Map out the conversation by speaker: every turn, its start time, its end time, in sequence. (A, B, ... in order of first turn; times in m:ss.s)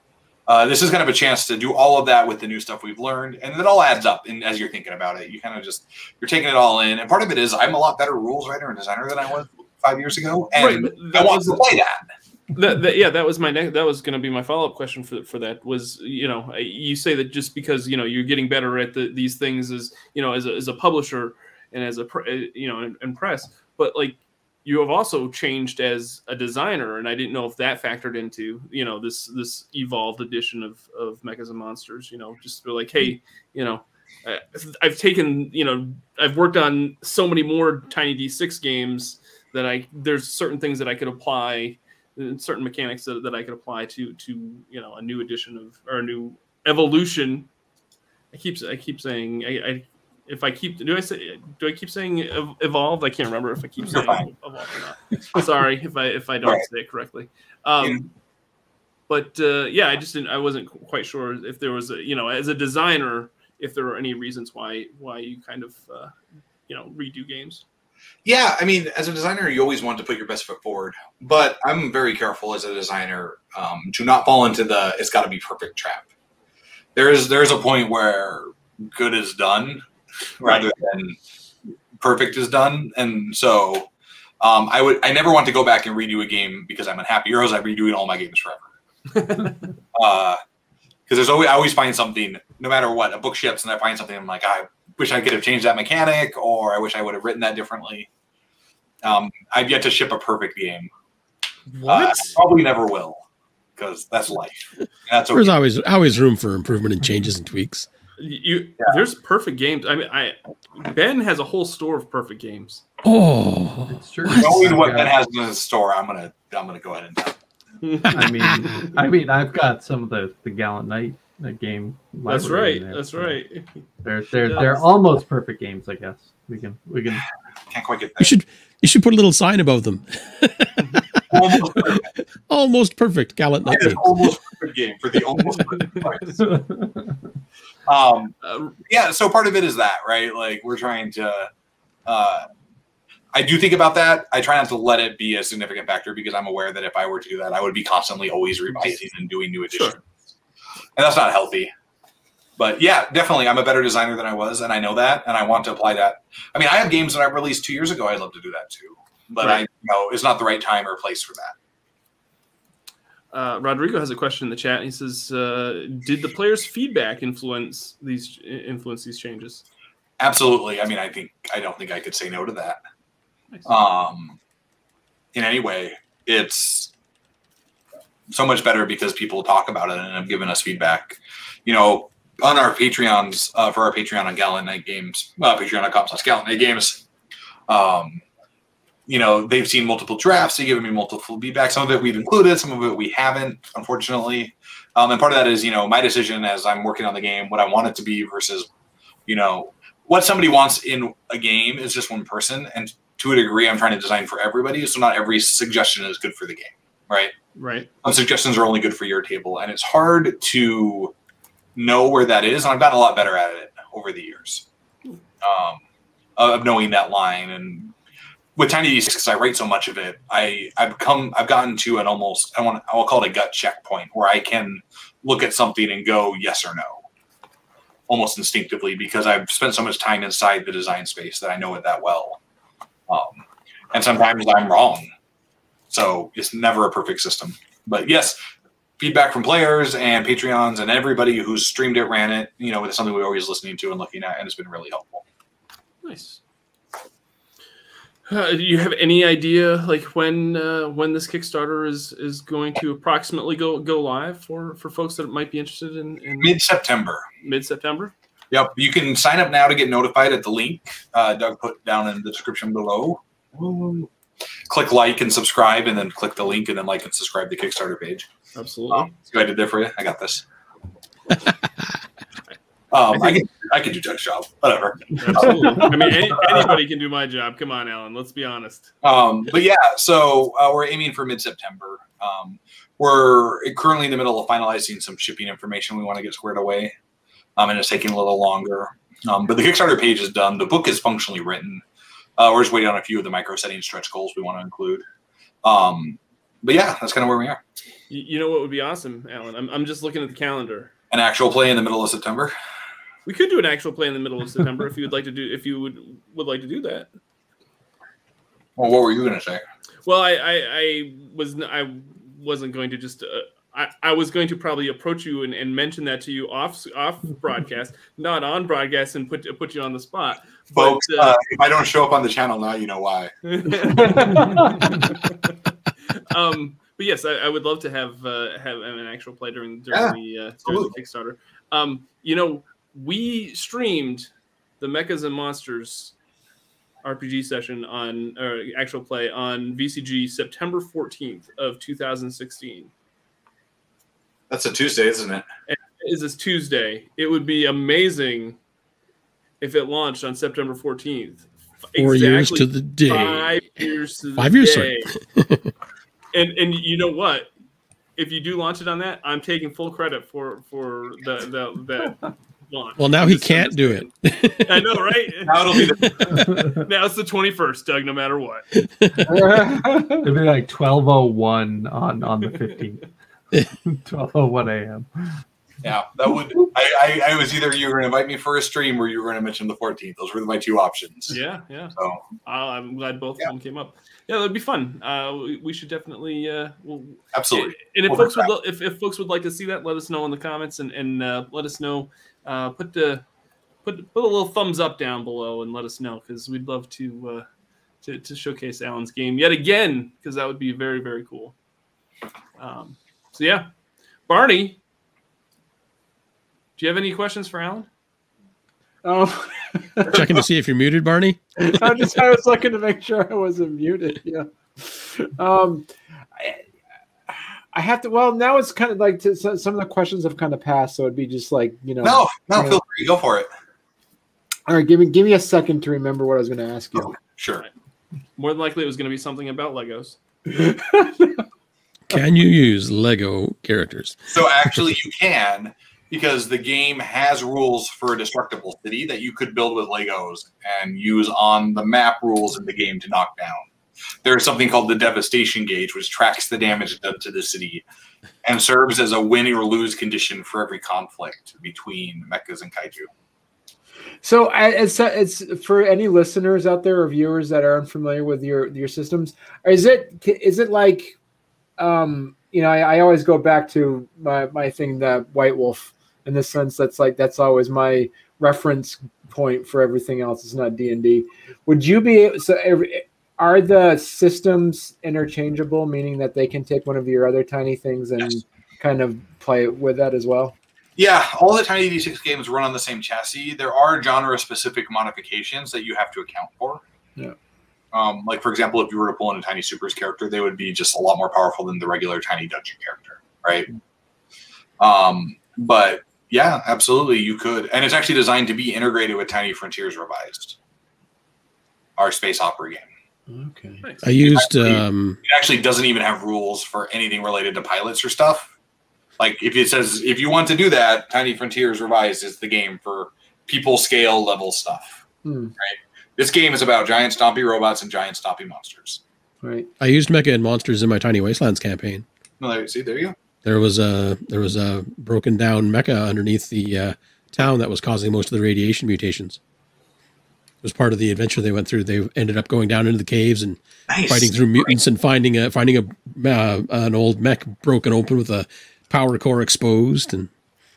0:00.5-0:12.0 A
0:10.5-0:11.6 B
0:12.5-0:47.5 B
0:48.3-0:58.1 B
0:53.9-0:54.2 A
0:59.1-1:06.1 B
1:06.7-1:07.6 B
1:08.2-1:16.1 A
1:17.0-1:19.8 A
1:20.4-1:21.2 A
1:22.0-1:23.9 A
1:24.4-1:28.7 A
1:29.1-1:29.7 B
1:29.9-1:30.4 A
1:31.1-1:38.1 A
1:39.0-1:40.9 A
1:41.7-1:42.4 B
1:41.9-1:43.2 A
1:43.8-1:45.6 A
1:45.3-1:47.9 C
1:48.2-1:52.8 B
1:53.0-1:54.8 C
1:53.9-1:55.1 D
1:54.4-1:57.4 A
1:57.8-1:58.9 B
1:58.1-2:03.4 D
1:58.2-1:58.6 C
2:02.2-2:03.8 B
2:04.0-2:07.2 D
2:04.4-2:04.8 B
2:07.7-2:08.3 A
2:08.2-2:14.3 C
2:11.3-2:12.1 A
2:13.7-2:16.4 A
2:15.8-2:16.0 B
2:16.4-2:17.2 D
2:17.9-2:18.3 A
2:18.4-2:18.7 B
2:18.8-2:21.5 A
2:22.0-2:22.4 A
2:23.3-2:30.0 A
2:29.7-2:30.0 B
2:31.0-2:31.7 A
2:32.6-2:41.5 A
2:43.3-2:49.6 B
2:50.2-2:52.8 A
2:53.6-2:54.4 A
2:55.3-2:56.9 A
2:58.3-3:07.0 A
3:07.7-3:08.2 A
3:09.1-3:18.7 A
3:19.3-3:27.3 A
3:27.6-3:27.9 B
3:28.0-3:31.1 A
3:31.8-3:34.7 A
3:35.4-3:35.8 A
3:36.4-3:37.9 A
3:38.6-3:47.0 A
3:48.1-3:52.4 A
3:53.1-3:55.1 A
3:55.9-3:58.4 A
3:59.0-4:05.2 A
4:06.0-4:06.4 B
4:08.2-4:16.6 B
4:16.4-4:17.2 A
4:17.4-4:18.1 B
4:18.5-4:24.1 A
4:24.7-4:28.3 A
4:28.5-4:29.1 B
4:28.9-4:30.4 A
4:32.9-4:36.7 A
4:35.2-4:38.9 B
4:39.0-4:46.9 A
4:47.6-4:51.8 A
4:52.4-4:55.0 A
4:55.6-4:57.6 A
4:58.1-5:00.9 B
5:01.1-5:02.5 A
5:03.2-5:07.1 B
5:08.8-5:09.6 A
5:10.0-5:21.4 B
5:20.7-5:24.7 A
5:23.4-5:25.5 B
5:26.1-5:34.3 B
5:29.9-5:30.9 A
5:34.8-5:36.1 B
5:37.0-5:42.9 B
5:44.5-5:45.4 A
5:45.7-5:48.6 B
5:49.6-5:55.1 B
5:52.0-5:53.5 C
5:54.4-5:55.7 C
5:56.3-5:57.5 B
5:58.2-6:05.8 B
6:03.0-6:04.9 C
6:05.4-6:06.2 A
6:05.8-6:06.3 C
6:06.3-6:06.8 D
6:06.7-6:08.6 B
6:08.8-6:09.4 C
6:09.2-6:10.3 E
6:09.9-6:13.0 D
6:13.8-6:15.4 D
6:15.8-6:21.3 A
6:21.3-6:33.2 B
6:21.9-6:22.2 A
6:27.3-6:28.5 A
6:33.8-6:37.4 B
6:38.0-6:41.5 B
6:42.6-6:43.7 B
6:44.3-6:44.8 B
6:46.8-6:47.9 B
6:49.0-6:50.4 E
6:50.1-6:52.1 C
6:51.6-6:56.6 E
6:57.3-7:02.8 E
7:02.0-7:03.5 A
7:04.7-7:07.1 E
7:06.9-7:07.6 A
7:08.4-7:10.2 B
7:10.5-7:11.4 E
7:12.1-7:14.3 C
7:14.3-7:23.7 A
7:24.2-7:27.8 A
7:28.4-7:33.1 A
7:34.2-7:41.2 E
7:41.8-8:00.5 E
8:01.0-8:06.8 A
8:07.9-8:13.7 A
8:14.8-8:20.6 A
8:22.0-8:22.9 A
8:23.3-8:23.8 E
8:23.8-8:24.1 B
8:24.0-8:25.2 C
8:24.2-8:28.5 A
8:29.2-8:35.0 A
8:35.2-8:35.5 E
8:35.6-8:39.0 A
8:39.4-8:39.7 E
8:39.8-8:42.0 C
8:42.4-8:43.1 A
8:43.4-8:49.4 C
8:50.6-9:00.3 C
8:53.9-8:54.8 A